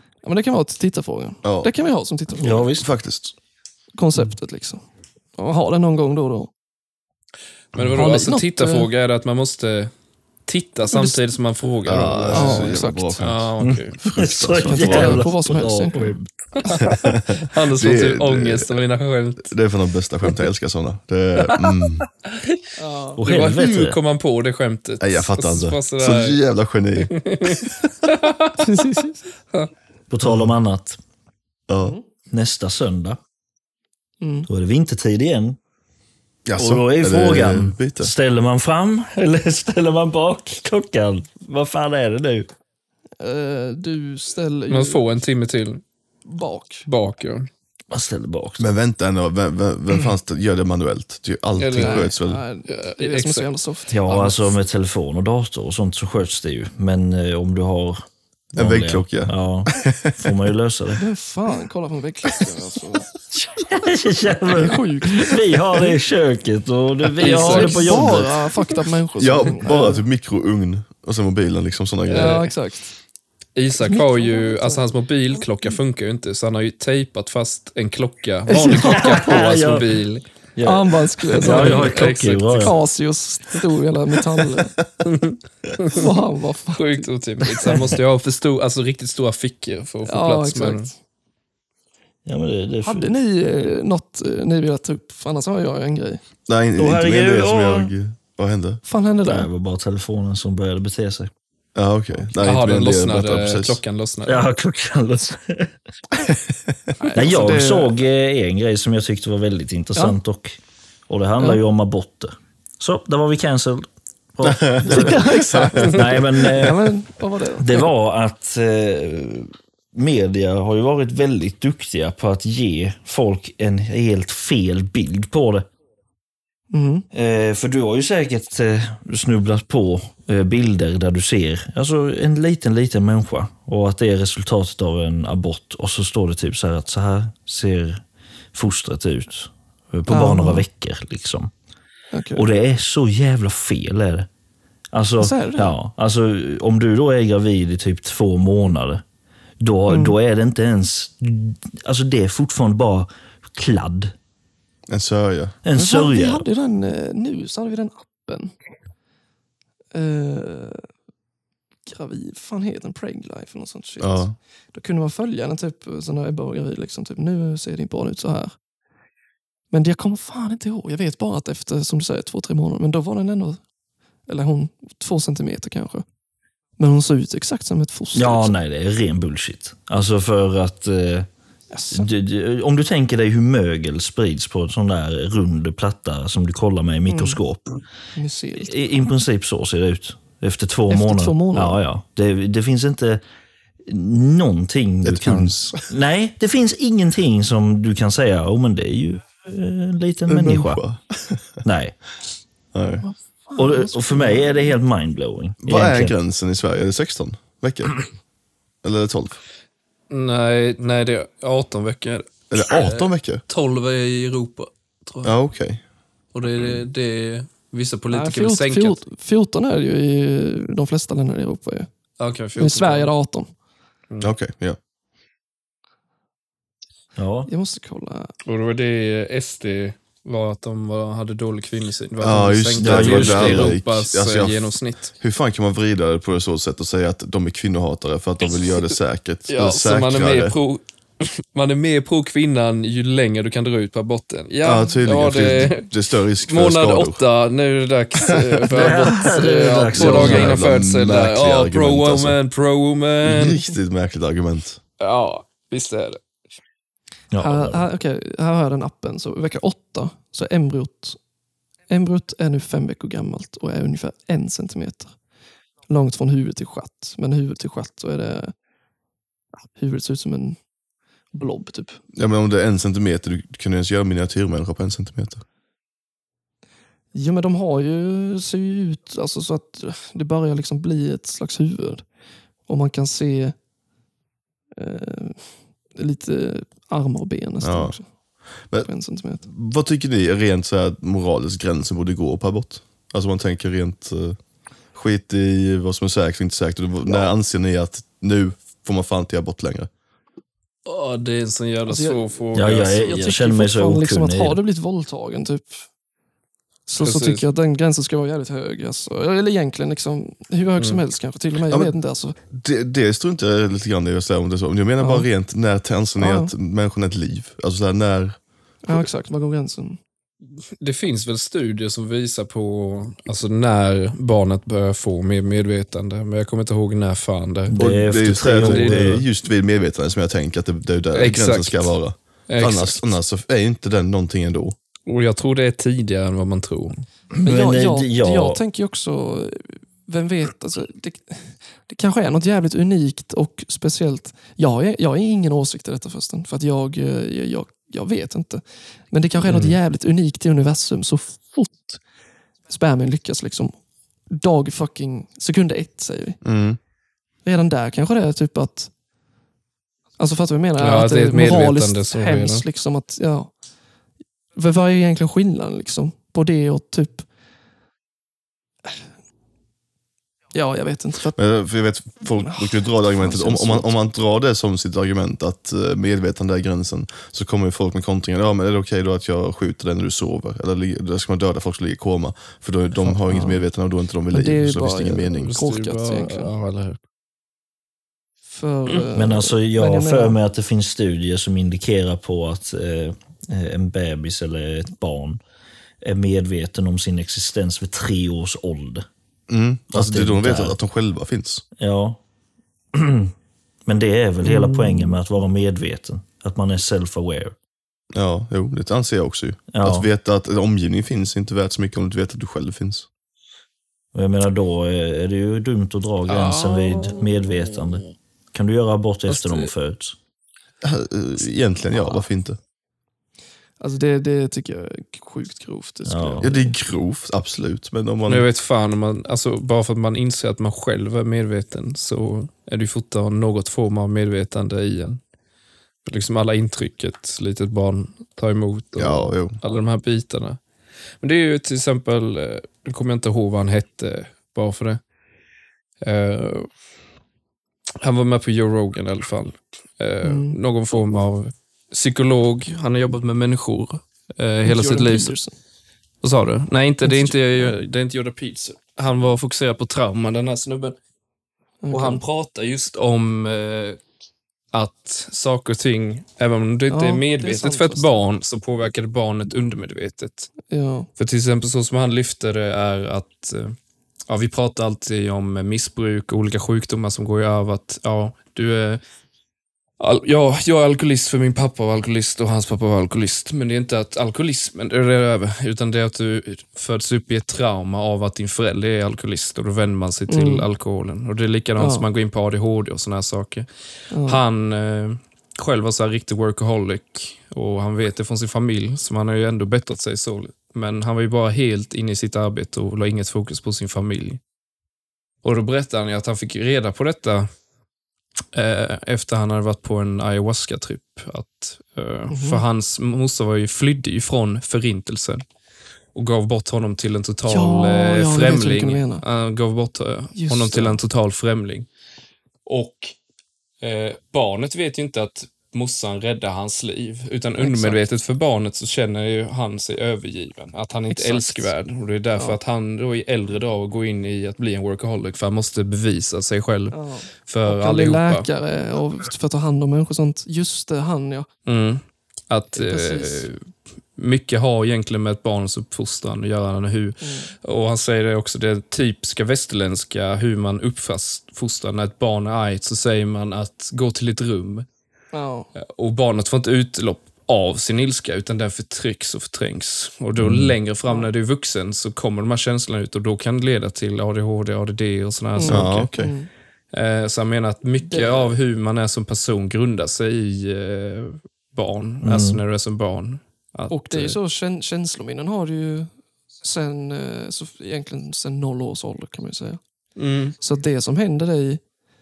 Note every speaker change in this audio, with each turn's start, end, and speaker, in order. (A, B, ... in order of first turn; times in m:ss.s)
0:00.2-0:02.7 A
0:01.4-0:01.7 B
0:02.4-0:02.9 C
0:02.8-0:03.3 B
0:04.0-0:04.8 A
0:05.4-0:06.5 A
0:07.7-0:09.9 D
0:07.7-0:08.0 B
0:07.9-0:08.9 A
0:10.4-0:14.0 D
0:10.9-0:11.2 A
0:11.8-0:15.3 B
0:12.3-0:13.3 A
0:13.6-0:16.3 C
0:14.6-0:16.1 A
0:16.6-0:19.5 D
0:16.8-0:18.7 B
0:19.4-0:22.0 B
0:22.8-0:23.2 A
0:23.2-0:24.0 C
0:23.2-0:26.4 D
0:25.0-0:27.9 B
0:27.0-0:29.0 D
0:28.6-0:29.3 A
0:30.1-0:31.0 C
0:31.7-0:32.0 B
0:31.8-0:32.0 A
0:32.3-0:33.2 C
0:34.2-0:34.5 A
0:34.5-0:35.6 C
0:36.4-0:38.1 B
0:36.6-0:42.5 C
0:43.2-0:45.0 A
0:44.7-0:45.8 D
0:46.2-0:46.8 A
0:46.8-0:47.5 D
0:47.9-0:48.7 C
0:48.6-0:52.4 B
0:51.6-0:52.1 D
0:51.8-0:54.4 A
0:52.6-0:53.5 D
0:53.9-0:58.0 C
0:58.5-1:01.0 C
0:58.6-1:00.3 B
1:01.0-1:03.1 A
1:03.4-1:08.5 C
1:04.5-1:05.9 A
1:07.2-1:08.0 D
1:07.2-1:10.0 A
1:09.2-1:12.5 B
1:12.1-1:12.5 D
1:12.1-1:13.0 A
1:13.5-1:20.2 D
1:13.7-1:14.8 A
1:18.5-1:19.3 A
1:18.7-1:19.9 C
1:20.6-1:22.8 C
1:20.6-1:24.8 A
1:21.4-1:22.8 D
1:25.0-1:26.0 D
1:25.9-1:27.0 A
1:26.7-1:30.9 D
1:30.1-1:30.9 A
1:32.2-1:33.1 C
1:32.8-1:36.2 A
1:36.5-1:38.8 B
1:36.8-1:37.9 C
1:38.8-1:39.5 A
1:39.2-1:41.3 C
1:41.7-1:43.8 B
1:42.4-1:44.5 D
1:44.2-1:45.7 C
1:47.0-1:47.9 A
1:47.1-1:57.0 C
1:54.4-1:56.0 B
1:54.8-1:57.9 A
1:57.6-2:05.7 C
2:06.7-2:07.0 A
2:07.1-2:21.5 C
2:20.1-2:20.6 A
2:22.1-2:22.5 A
2:22.3-2:24.3 C
2:24.9-2:29.0 C
2:25.2-2:25.7 A
2:29.6-2:34.1 C
2:29.9-2:30.1 A
2:34.9-2:35.6 B
2:35.6-2:36.4 C
2:35.7-2:38.5 A
2:39.9-2:40.8 A
2:41.8-2:48.5 A
2:44.0-2:44.3 B
2:49.7-2:53.6 A
2:54.3-2:56.0 A
2:56.8-2:58.6 A
2:58.1-3:01.3 C
3:01.7-3:02.1 A
3:01.9-3:07.8 C
3:07.1-3:07.4 A
3:08.1-3:08.9 A
3:08.5-3:13.2 C
3:10.9-3:11.8 A
3:13.8-3:20.8 C
3:15.0-3:15.8 B
3:20.3-3:21.4 B
3:21.6-3:22.0 C
3:22.7-3:23.0 B
3:23.0-3:24.7 A
3:23.6-3:26.1 C
3:25.6-3:28.0 B
3:28.8-3:29.4 B
3:30.1-3:35.3 D
3:32.5-3:33.4 B
3:35.2-3:35.8 B
3:36.3-3:39.0 D
3:38.1-3:41.9 A
3:42.2-3:43.1 D
3:42.6-3:43.5 A
3:44.2-3:44.8 B
3:47.2-3:47.5 C
3:47.5-3:48.3 A
3:48.4-3:55.1 D
3:52.2-4:00.6 B
3:52.8-3:53.8 C
3:59.5-4:05.9 D
4:04.6-4:07.2 B
4:06.4-4:13.6 D
4:08.2-4:08.6 B
4:08.7-4:10.6 C
4:09.9-4:12.4 B
4:13.2-4:14.8 B
4:15.0-4:16.2 D
4:17.3-4:17.8 C
4:17.4-4:21.2 A
4:21.9-4:25.1 A
4:25.9-4:28.5 A
4:29.7-4:30.6 A
4:31.3-4:32.0 A
4:32.1-4:35.4 B
4:37.1-4:42.0 A
4:42.7-4:43.6 A
4:44.7-4:48.1 A
4:47.6-4:48.0 B
4:48.8-4:49.5 A
4:49.4-4:54.4 B
4:54.9-4:59.9 B
5:00.8-5:03.2 D
5:01.9-5:05.8 A
5:02.5-5:04.6 C
5:06.9-5:12.4 A
5:07.0-5:07.4 D
5:11.7-5:11.9 B
5:12.5-5:19.1 B
5:15.0-5:15.3 A
5:16.2-5:16.5 A
5:18.8-5:20.0 A
5:20.8-5:27.8 D
5:27.7-5:29.2 C
5:27.8-5:34.7 B
5:28.4-5:29.2 D
5:31.1-5:33.2 D
5:35.0-5:37.0 D
5:37.4-5:38.6 C
5:37.4-5:52.0 A
5:49.4-5:49.8 D
5:52.7-5:53.7 A
5:54.3-5:56.4 A
5:56.4-5:56.8 B
5:57.4-5:58.9 A
6:00.2-6:03.5 A
6:00.8-6:02.6 D
6:04.6-6:07.2 A
6:10.5-6:11.4 A
6:11.3-6:25.6 B
6:12.4-6:13.9 A
6:23.0-6:23.6 A
6:24.3-6:26.5 A
6:25.3-6:27.0 D
6:28.5-6:30.4 A
6:29.1-6:35.4 C
6:36.0-6:39.1 C
6:39.5-6:41.6 B
6:39.9-6:40.8 C
6:41.8-6:42.2 C
6:42.9-6:43.3 C
6:43.8-6:47.5 C
6:48.1-6:53.1 B
6:49.7-6:50.1 C
6:54.1-7:00.2 C
6:56.3-6:57.5 A
6:59.3-6:59.7 D
7:00.8-7:02.6 B
7:01.9-7:02.2 A
7:03.8-7:06.7 A
7:06.0-7:06.5 C
7:06.4-7:08.5 B
7:08.3-7:15.2 D
7:16.0-7:20.6 D
7:19.0-7:19.6 B
7:21.2-7:25.0 D
7:26.0-7:26.7 D
7:28.0-7:35.3 D
7:30.2-7:30.6 A
7:34.6-7:35.5 A
7:36.2-7:41.0 D
7:37.0-7:37.8 A
7:41.8-7:42.2 A
7:41.9-7:44.0 D
7:44.7-7:50.5 D
7:46.9-7:48.2 A
7:50.7-7:51.1 A
7:51.2-7:53.8 D
7:54.3-7:59.0 D
8:00.0-8:24.4 D
8:10.3-8:10.7 A
8:11.8-8:12.0 A
8:14.1-8:14.4 A
8:25.4-8:27.5 D
8:28.5-8:35.4 D
8:32.3-8:32.6 A
8:36.1-8:41.9 D
8:37.5-8:39.2 A
8:40.3-8:41.0 A
8:42.6-8:43.2 D
8:43.8-8:58.5 D
8:47.6-8:48.0 A
8:51.1-8:51.7 A
8:56.9-9:01.5 A
9:01.6-9:14.8 D
9:02.7-9:03.5 A
9:07.2-9:07.5 A
9:15.3-9:15.7 A
9:15.8-9:26.1 D
9:20.4-9:20.8 C
9:25.6-9:26.5 A
9:25.6-9:26.3 B
9:26.9-9:34.4 D
9:28.0-9:28.5 A
9:32.2-9:32.6 C
9:33.9-9:39.8 A
9:40.2-9:40.6 D
9:40.6-9:41.8 A